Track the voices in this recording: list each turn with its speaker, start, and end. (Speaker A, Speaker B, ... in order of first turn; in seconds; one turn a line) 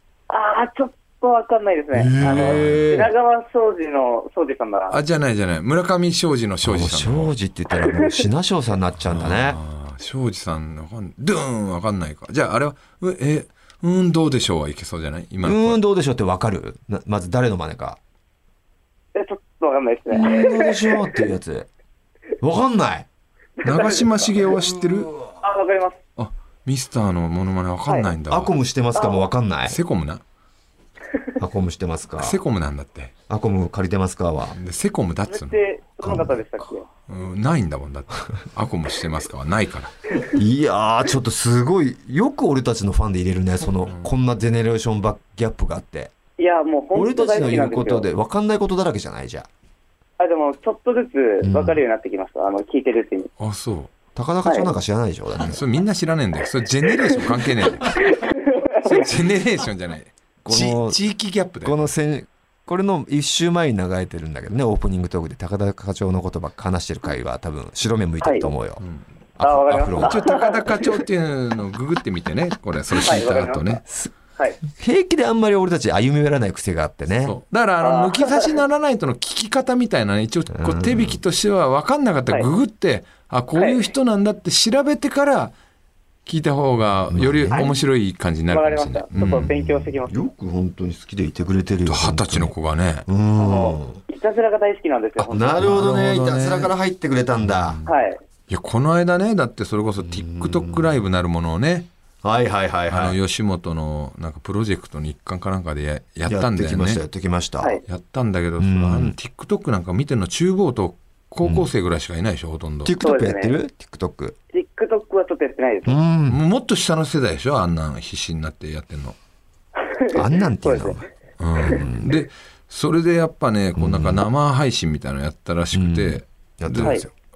Speaker A: 0.3-5.0
Speaker B: 1.9-3.1
Speaker C: 2.1-2.9
Speaker C: 4.9-7.3
Speaker B: 6.6-9.6
Speaker A: 7.8-8.2
Speaker C: 9.1-15.8
Speaker B: 15.4-18.0
Speaker A: 19.1-21.3
Speaker B: 20.1-21.7
Speaker B: 22.4-23.1
Speaker A: 23.6-24.4
Speaker C: 23.6-25.2
Speaker A: 25.4-26.0
Speaker C: 26.2-28.5
Speaker B: 28.3-29.8
Speaker A: 28.9-29.3
Speaker C: 29.7-30.2
Speaker B: 31.4-32.4
Speaker C: 32.2-33.1
Speaker B: 33.3-34.6
Speaker C: 34.5-35.6
Speaker A: 35.3-36.9
Speaker B: 36.0-36.3
Speaker C: 37.1-39.9
Speaker B: 40.3-46.1
Speaker A: 46.4-48.1
Speaker B: 46.9-49.5
Speaker A: 50.2-53.3
Speaker B: 51.4-51.8
Speaker C: 53.4-53.9
Speaker B: 54.1-55.6
Speaker A: 54.5-54.7
Speaker C: 55.4-58.0
Speaker A: 58.0-59.1
Speaker C: 58.8-61.8
Speaker B: 60.5-61.0
Speaker B: 61.6-68.8
Speaker A: 68.2-68.5
Speaker B: 69.4-70.4
Speaker A: 69.4-70.7
Speaker C: 70.0-73.8
Speaker A: 73.0-73.8
Speaker B: 73.9-74.1
Speaker B: 74.7-77.4
Speaker C: 77.2-85.6
Speaker A: 77.8-78.5
Speaker B: 80.5-81.2
Speaker A: 83.6-83.9
Speaker C: 86.3-89.6
Speaker B: 87.1-87.7
Speaker A: 88.5-90.2
Speaker B: 89.2-92.5
Speaker C: 91.9-93.1
Speaker B: 93.1-94.0
Speaker A: 93.4-95.7
Speaker B: 95.2-97.8
Speaker C: 95.6-96.7
Speaker C: 97.5-97.9
Speaker A: 97.9-98.2
Speaker C: 98.5-101.9
Speaker B: 100.0-100.9
Speaker B: 102.2-103.2
Speaker C: 102.9-107.0
Speaker B: 106.3-107.8
Speaker C: 107.9-113.0
Speaker B: 108.6-109.2
Speaker B: 111.4-111.7
Speaker B: 112.8-114.4
Speaker A: 113.0-113.6
Speaker A: 114.5-116.0
Speaker B: 115.8-116.4
Speaker C: 116.3-119.2
Speaker A: 119.9-121.0
Speaker B: 120.1-122.1
Speaker C: 121.4-127.0
Speaker B: 123.8-124.2
Speaker B: 125.7-127.1